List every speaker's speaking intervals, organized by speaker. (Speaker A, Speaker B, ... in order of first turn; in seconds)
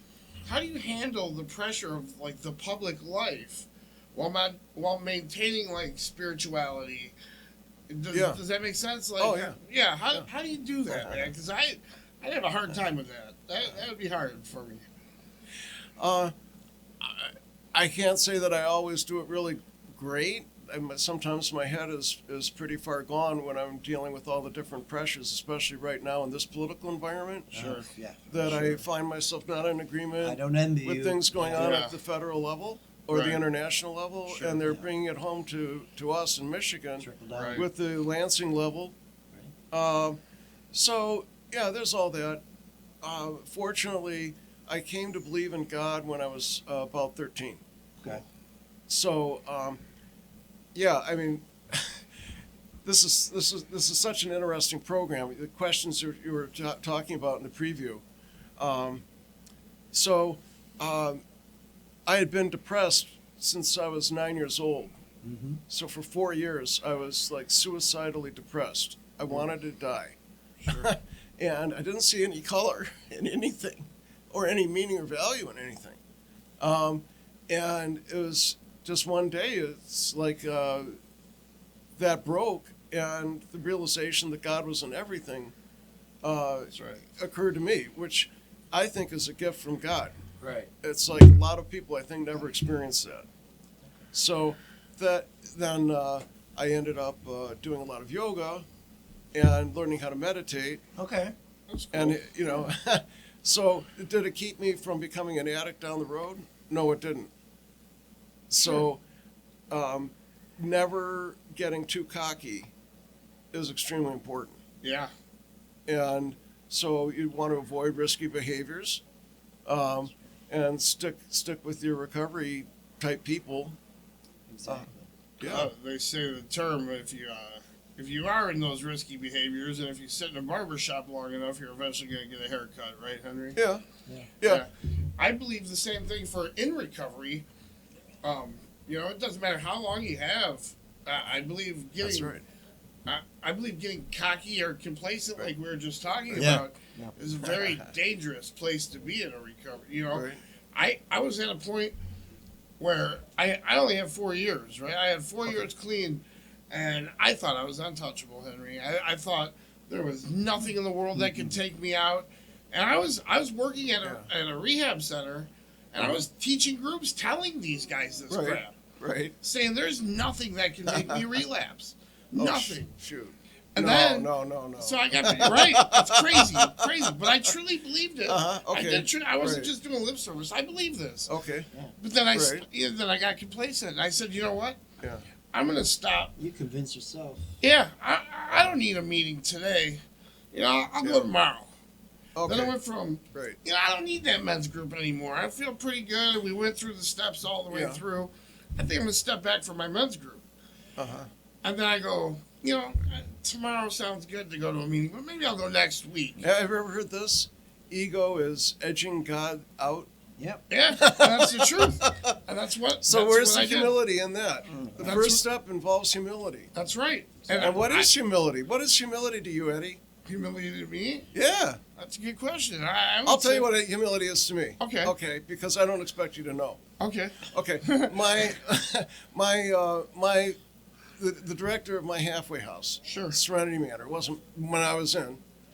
Speaker A: 0.4-7.2, 7.9-14.8, 27.5-27.9, 31.5-31.9, 33.1-33.4, 34.3-34.6, 37.3-37.6, 70.6-70.9, 86.7-87.0, 101.7-102.6, 114.8-115.1, 125.4-133.6, 134.4-137.4, 138.2-142.3, 143.1-151.9, 152.8-168.8, 169.4-172.9, 173.7-181.3, 182.0-184.8, 185.5-186.3, 187.6-191.7, 192.4-200.4, 201.6-206.4, 210.7-214.0, 215.0-215.4, 216.7-218.1, 220.2-221.3, 221.9-223.7, 224.8-225.1, 227.0-228.1, 233.0-233.4
Speaker B: 8.1-8.4, 9.2-9.6, 10.9-11.3, 16.0-16.3, 17.0-27.8, 28.3-38.9, 39.7-40.2, 40.7-42.4, 43.0-47.6, 48.9-49.8, 50.7-52.1, 52.8-58.0, 58.6-59.0, 59.9-61.2, 62.0-65.0, 65.7-76.0, 76.6-80.9, 82.0-85.5, 86.2-90.1, 90.8-93.3, 94.1-98.7, 99.3-100.8, 101.9-107.3, 108.5-109.0, 109.7-112.7, 113.5-114.6, 115.9-119.0, 119.7-123.8, 125.4-125.7, 133.5-133.8, 142.0-142.4, 147.4-147.8, 150.1-150.4, 168.3-169.3, 170.9-171.2, 172.3-177.1, 178.2-179.7, 181.3-181.7, 182.3-182.6, 191.0-191.3, 192.3-192.7, 197.7-198.0, 201.0-201.3, 206.4-210.1, 211.0-212.3, 213.0-216.7, 217.6-220.0, 221.3-221.8, 223.2-226.8, 227.5-230.6, 231.2-235.4
Speaker C: 27.5-28.8, 30.2-31.8, 34.6-34.9, 37.0-37.7, 65.2-65.6, 90.4-90.7, 101.0-101.3, 124.5-125.1, 146.3-147.1, 186.4-187.5, 210.4-210.6, 214.7-215.2